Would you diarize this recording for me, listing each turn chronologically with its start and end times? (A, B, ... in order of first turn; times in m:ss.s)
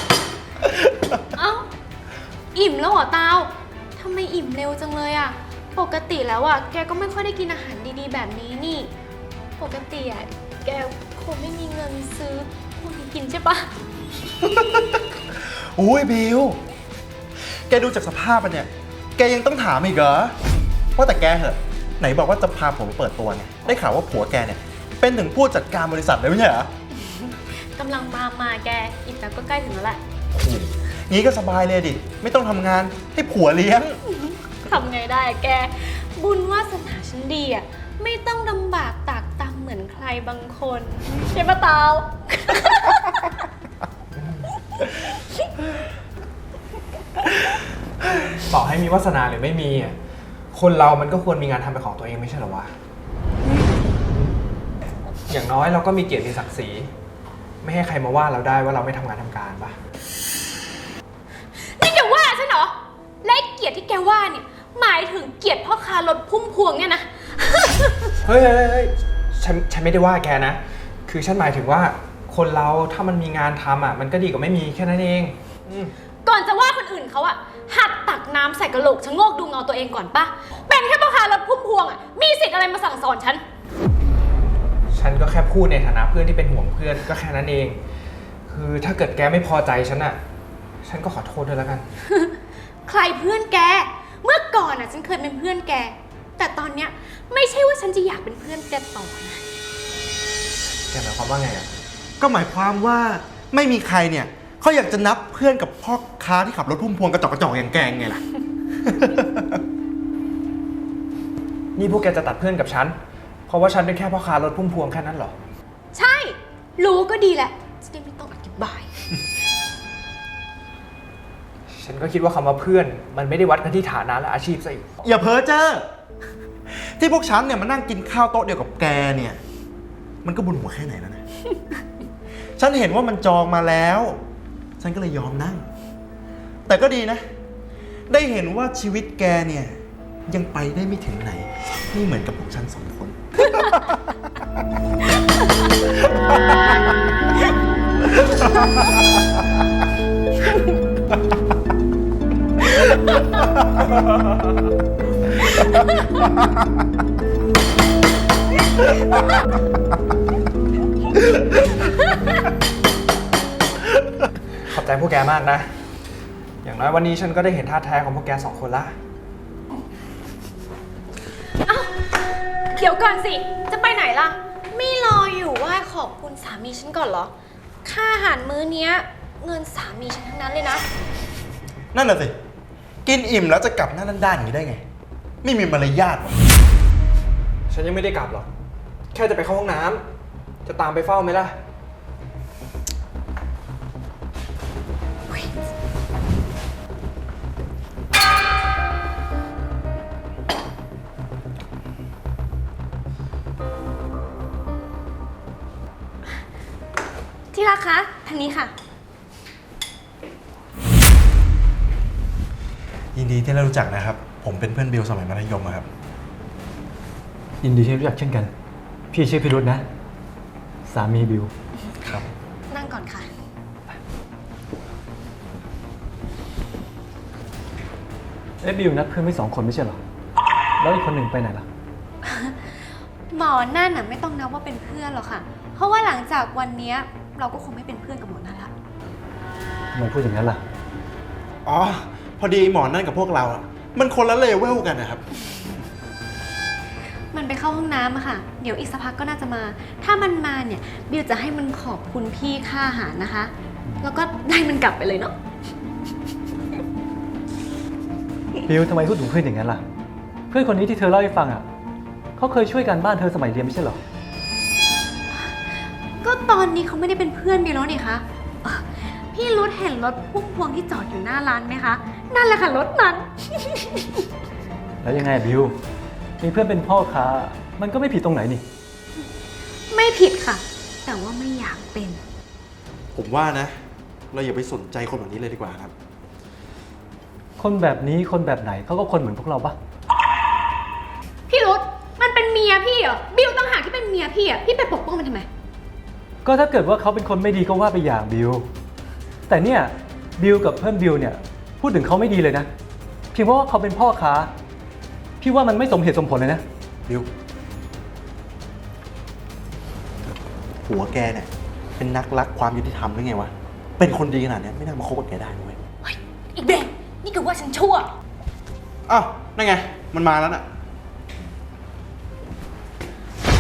0:01.3-0:01.7 A
0:02.5-0:08.9 A
0:09.6-0:13.7 A
0:14.4-0:16.6 B
0:17.7-0:20.3 B
0:21.0-0:26.7 B
0:26.9-0:30.0 A
0:30.3-0:34.0 B
0:34.0-0:43.3 A
0:44.2-0:44.4 C
0:48.4-0:50.0 C
0:50.5-0:52.7 C
0:55.3-0:56.9 C
0:57.6-0:59.8 C
1:01.6-1:08.1 A
1:08.2-1:15.9 C
1:16.2-1:23.4 A
1:24.9-1:27.8 C
1:28.5-1:30.2 C
1:30.8-1:31.8 C
1:32.1-1:39.4 A
1:40.9-1:41.7 C
1:42.2-1:48.2 B
1:48.8-1:49.6 B
1:51.8-1:55.3 C
1:55.9-1:58.9 A
2:01.7-2:04.9 C
2:05.0-2:05.8 B
2:06.7-2:09.4 B
2:10.2-2:11.2 B
2:12.6-2:14.2 B
2:14.8-2:15.6 B
2:16.7-2:17.2 B
2:18.1-2:23.9 B
2:44.6-2:45.7 C
2:46.6-2:48.9 C
2:51.6-2:51.9 A
2:52.7-2:57.3 A
2:57.8-3:00.8 A
3:01.9-3:02.4 B
3:03.0-3:04.8 B
3:05.4-3:06.4 B
3:07.7-3:08.5 C
3:09.1-3:10.0 C
3:10.6-3:11.5 C
3:27.5-3:28.7 A
3:33.1-3:35.8 B
3:37.6-3:38.5 D
3:39.1-3:39.8 D
3:40.9-3:41.5 D
3:42.7-3:43.3 A
3:48.6-3:50.0 D
3:50.8-3:51.7 D
3:52.2-3:52.7 A
3:53.3-3:58.7 A
3:59.9-4:00.6 D
4:01.6-4:05.2 B
4:07.3-4:15.3 A
4:18.7-4:19.8 D
4:20.5-4:21.6 D
4:22.4-4:24.0 D
4:26.2-4:34.2 A
4:35.0-4:35.8 D
4:36.4-4:38.6 D
4:39.9-4:42.2 A
4:43.1-4:43.8 B
4:44.3-4:45.9 B
4:47.6-4:49.8 D
4:51.5-4:55.5 A
4:56.4-4:58.7 D
4:59.5-5:02.7 D
5:03.3-5:04.5 D
5:05.4-5:06.6 D
5:10.8-5:15.8 B
5:16.0-5:18.1 A
5:19.1-5:20.6 B